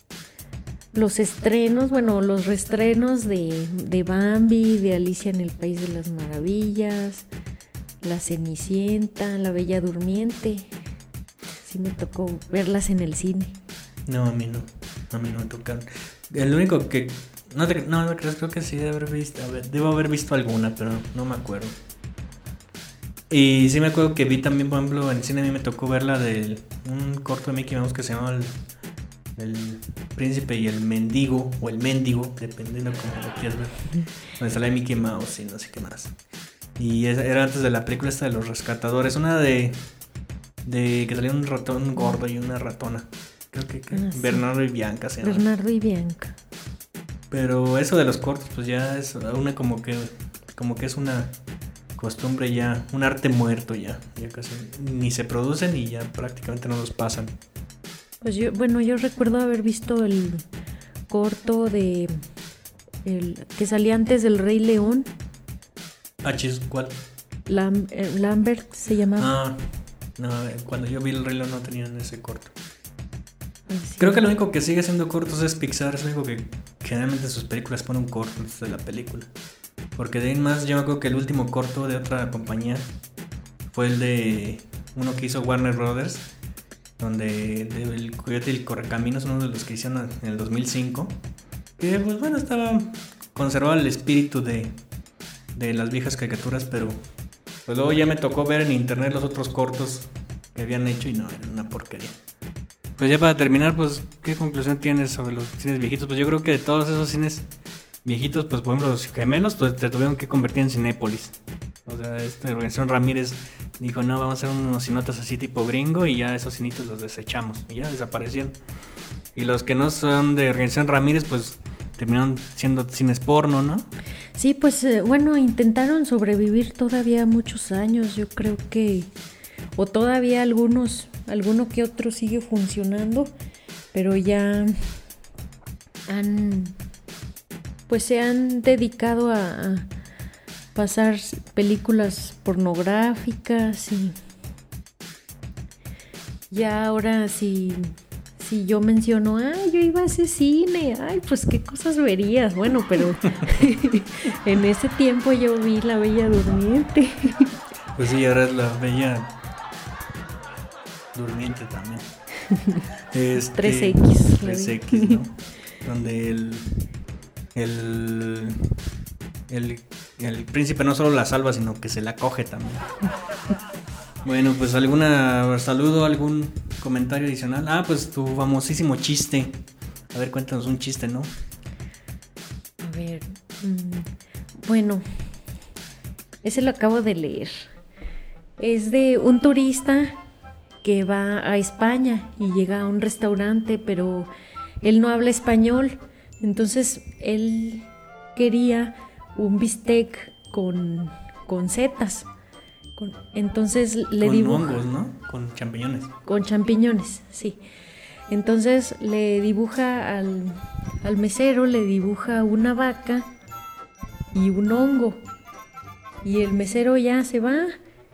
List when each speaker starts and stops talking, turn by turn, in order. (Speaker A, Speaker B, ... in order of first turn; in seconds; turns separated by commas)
Speaker A: 0.9-7.3, Speaker A: 8.0-10.7, Speaker A: 11.6-13.5, Speaker B: 14.1-21.7, Speaker B: 23.3-28.5, Speaker B: 29.4-33.8, Speaker B: 34.4-36.1, Speaker B: 36.8-39.8, Speaker B: 40.6-45.4, Speaker A: 43.9-44.4, Speaker A: 45.2-46.3, Speaker B: 47.3-51.3, Speaker B: 52.0-57.3, Speaker A: 58.2-60.4, Speaker A: 61.1-62.1, Speaker A: 63.0-65.1, Speaker B: 66.2-67.0, Speaker A: 67.5-69.3, Speaker B: 69.2-69.6, Speaker B: 70.2-72.5, Speaker A: 73.7-74.3, Speaker B: 74.0-79.3, Speaker B: 80.0-82.8, Speaker B: 83.7-86.3, Speaker B: 87.0-91.2, Speaker B: 91.8-94.7, Speaker B: 95.5-97.0, Speaker B: 97.7-102.1, Speaker B: 103.0-107.5, Speaker B: 108.0-118.5, Speaker B: 119.3-123.9, Speaker A: 124.3-129.1, Speaker A: 129.7-133.3, Speaker A: 133.9-134.7, Speaker A: 136.1-136.8, Speaker A: 137.9-139.9, Speaker A: 140.7-144.1, Speaker A: 146.5-157.5, Speaker B: 157.9-159.3, Speaker B: 161.1-162.1, Speaker A: 162.5-162.8, Speaker B: 163.1-166.9, Speaker A: 163.5-165.2, Speaker B: 167.5-168.8, Speaker B: 169.5-172.9, Speaker B: 174.2-181.3, Speaker A: 182.8-184.1, Speaker A: 184.6-185.0, Speaker A: 186.4-187.7, Speaker A: 188.6-190.1, Speaker A: 190.8-194.3, Speaker A: 194.8-202.3, Speaker A: 202.9-204.8, Speaker B: 204.2-206.1, Speaker A: 206.2-207.6, Speaker A: 208.3-213.3, Speaker A: 214.3-215.2, Speaker A: 216.2-217.6